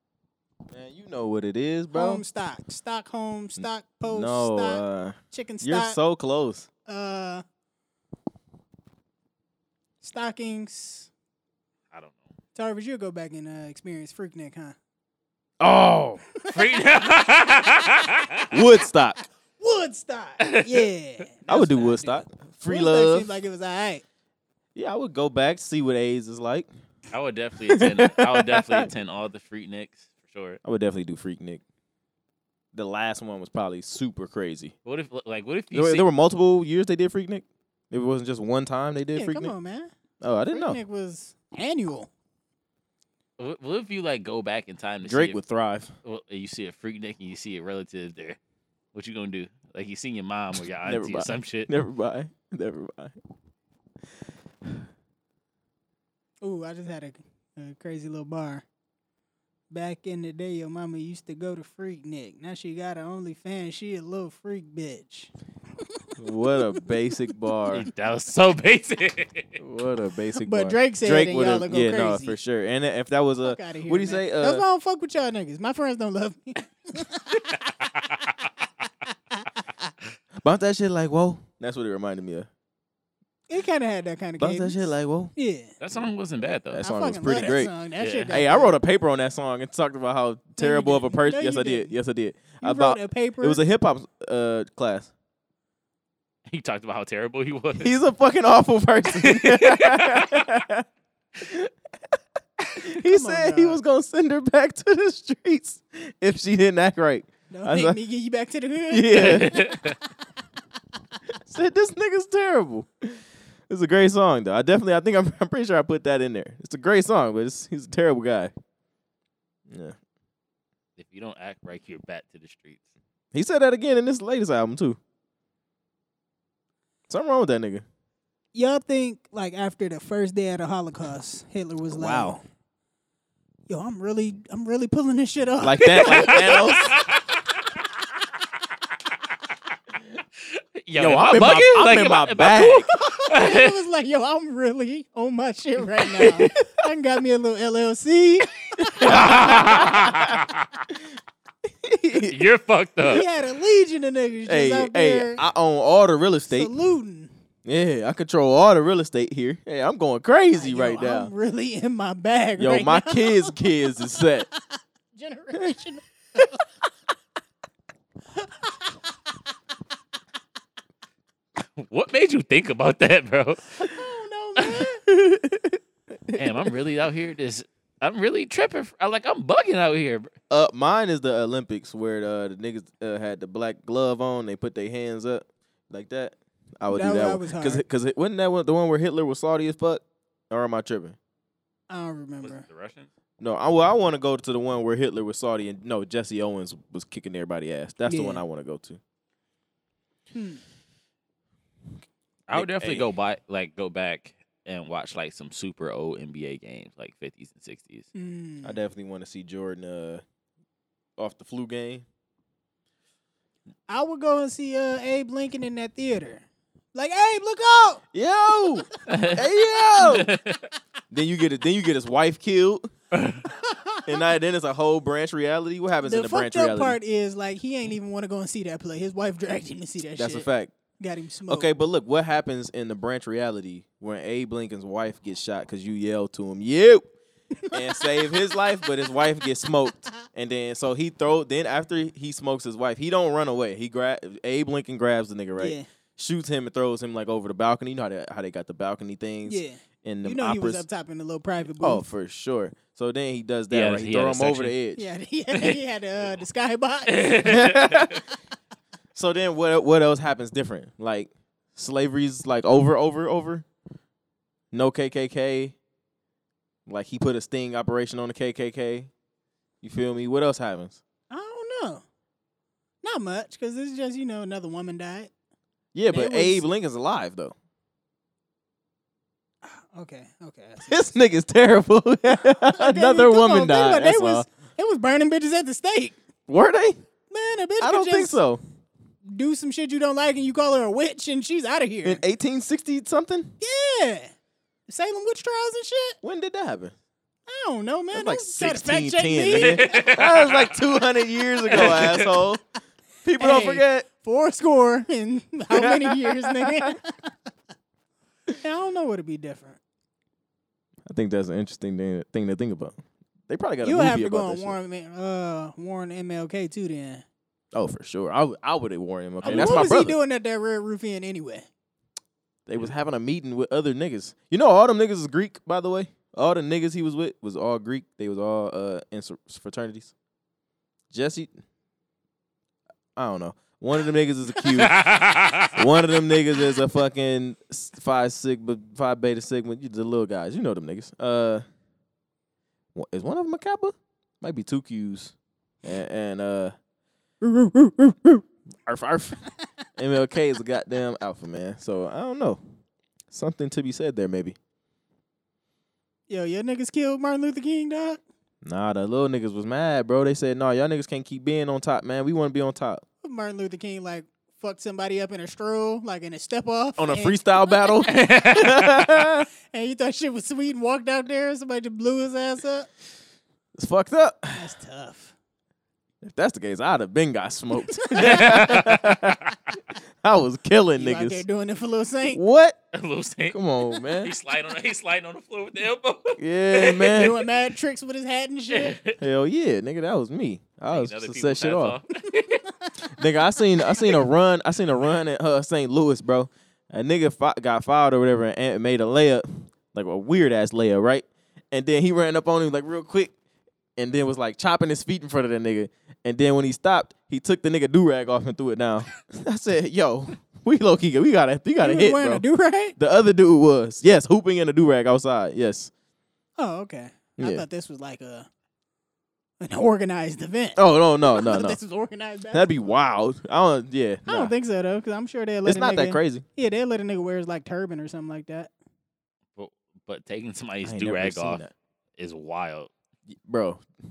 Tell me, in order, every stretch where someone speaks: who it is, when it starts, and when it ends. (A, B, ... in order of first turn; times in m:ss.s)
0:00.7-0:02.2 A
0:01.9-0:06.0 B
0:03.6-0:06.7 A
0:06.8-0:07.4 B
0:10.0-0:11.1 B
0:11.9-0:12.3 C
0:12.5-0:14.8 B
0:15.6-0:16.2 A
0:16.4-0:16.8 B
0:16.5-0:18.5 C
0:18.5-0:19.2 A
0:19.6-0:24.0 B
0:20.4-0:20.8 C
0:21.5-0:23.3 A
0:24.7-0:26.7 A
0:27.1-0:30.6 C
0:27.7-0:28.9 A
0:30.6-0:31.6 A
0:32.7-0:34.7 A
0:34.8-0:36.0 C
0:35.7-0:39.5 A
0:39.1-0:39.9 B
0:40.2-0:40.8 A
0:40.5-0:42.1 B
0:43.4-0:45.4 C
0:45.0-0:45.9 A
0:46.0-0:48.4 C
0:48.9-0:51.7 C
0:50.8-0:53.2 A
0:56.4-0:58.6 B
0:59.7-1:06.8 B
1:06.2-1:07.9 A
1:07.7-1:09.6 C
1:09.6-1:14.6 A
1:10.4-1:12.4 B
1:13.4-1:17.7 B
1:17.5-1:18.5 C
1:20.4-1:22.5 A
1:23.5-1:25.7 B
1:24.4-1:25.3 A
1:25.8-1:26.8 C
1:26.0-1:27.7 A
1:26.8-1:28.7 B
1:28.0-1:28.4 C
1:28.3-1:35.1 A
1:30.6-1:31.9 B
1:32.6-1:33.6 B
1:36.5-1:37.9 C
1:37.8-1:40.8 A
1:39.1-1:40.5 C
1:41.4-1:41.7 A
1:42.6-1:48.0 A
1:43.0-1:43.8 B
1:47.5-1:49.8 B
1:48.9-1:49.6 A
1:49.1-1:50.0 C
1:51.3-1:58.5 A
1:59.7-2:00.0 A
2:01.0-2:02.8 C
2:03.3-2:05.0 A
2:07.1-2:07.8 A
2:08.5-2:12.4 B
2:11.9-2:12.4 A
2:13.7-2:17.0 B
2:15.6-2:17.0 A
2:16.0-2:17.8 C
2:20.4-2:23.8 C
2:21.0-2:22.9 A
2:22.9-2:29.4 B
2:28.8-2:31.0 A
2:29.0-2:30.8 C
2:31.6-2:32.4 A
2:32.3-2:33.2 C
2:33.0-2:35.4 B
2:34.4-2:36.7 A
2:36.5-2:37.3 B
2:37.6-2:41.3 A
2:40.5-2:46.6 B
2:42.6-2:44.5 A
2:48.4-2:49.0 B
2:51.8-2:53.7 C
2:53.8-2:55.0 B
2:55.0-2:56.7 A
2:56.4-3:00.3 C
3:00.5-3:11.2 A
3:06.9-3:07.8 B
3:11.9-3:12.6 B
3:12.4-3:13.1 C
3:13.4-3:19.0 A
3:18.1-3:18.4 B
3:20.3-3:20.6 B
3:22.5-3:28.1 C
3:22.5-3:23.1 A
3:28.1-3:28.8 B
3:28.6-3:30.2 A
3:31.2-3:32.0 A
3:33.9-3:38.9 B
3:38.1-3:40.3 A
3:39.1-3:39.4 C
3:40.0-3:40.7 C
3:41.1-3:42.9 A
3:43.1-3:43.4 C
3:43.5-3:44.3 B
3:44.0-3:47.0 A
3:46.0-3:50.5 B
3:50.2-3:50.7 A
3:51.0-3:51.7 B
3:51.5-3:57.1 A
3:57.6-3:58.4 B
3:57.7-4:10.8 A
4:05.6-4:05.8 B
4:09.4-4:12.0 B
4:11.8-4:15.1 A
4:13.7-4:14.7 C
4:15.0-4:17.6 B
4:15.5-4:15.8 C
4:17.1-4:18.2 C
4:17.4-4:18.2 A
4:19.1-4:23.6 A
4:24.7-4:25.8 A
4:26.8-4:29.1 A
4:29.8-4:31.0 A
4:31.3-4:32.0 B
4:33.0-4:35.3 B
4:35.9-4:37.5 A
4:36.1-4:36.6 B
4:39.6-4:41.0 B
4:40.8-4:44.4 A
4:42.6-4:46.2 B
4:46.5-4:47.0 A
4:47.3-4:48.4 B
4:47.8-4:48.6 A
4:49.3-4:52.2 B
4:52.0-4:53.5 A
4:53.6-4:54.3 B
4:54.9-4:56.2 B
4:56.2-4:56.9 A
4:57.5-5:00.0 B
4:58.1-5:02.6 A
4:59.5-5:00.7 C
5:01.7-5:02.2 C
5:01.8-5:02.2 B
5:03.2-5:04.0 A
5:03.4-5:07.3 B
5:05.7-5:06.9 A
5:08.6-5:09.8 B
5:11.0-5:13.0 A
5:13.5-5:14.8 A
5:13.8-5:17.2 B
5:17.7-5:20.2 A
5:19.4-5:19.9 C
5:19.4-5:21.7 B
5:22.7-5:30.1 A
5:31.1-5:31.5 A
5:33.2-5:35.1 A
5:34.8-5:35.8 C
5:35.7-5:41.6 A
5:42.9-5:46.7 A
5:47.4-5:48.1 B
5:48.2-5:49.4 A
5:50.0-5:52.6 A
5:53.3-5:54.6 A
5:56.3-5:58.2 B
5:58.6-6:03.0 A
6:03.2-6:07.9 B
6:07.0-6:09.5 A
6:08.1-6:08.7 C
6:09.7-6:12.9 B
6:13.8-6:14.7 A
6:14.6-6:15.3 B
6:16.2-6:19.4 A
6:17.9-6:18.6 B
6:18.2-6:19.5 C
6:20.2-6:21.4 A
6:21.0-6:22.4 B
6:22.3-6:22.8 A
6:22.9-6:23.6 C
6:23.5-6:24.3 A
6:24.1-6:27.3 C
6:26.4-6:27.4 A
6:27.0-6:29.0 B
6:28.7-6:29.2 C
6:29.2-6:32.0 A
6:30.9-6:32.6 C
6:33.0-6:43.3 A
6:44.0-6:52.4 A
6:51.8-6:53.0 B
6:53.0-6:55.9 A
6:56.6-6:58.5 B
6:57.4-6:57.6 A
6:59.6-7:02.9 B
7:00.8-7:01.8 A
7:02.5-7:04.5 A
7:04.2-7:08.7 B
7:05.6-7:06.4 A
7:09.6-7:11.6 C
7:10.8-7:11.7 A
7:12.2-7:12.9 C
7:13.3-7:13.8 A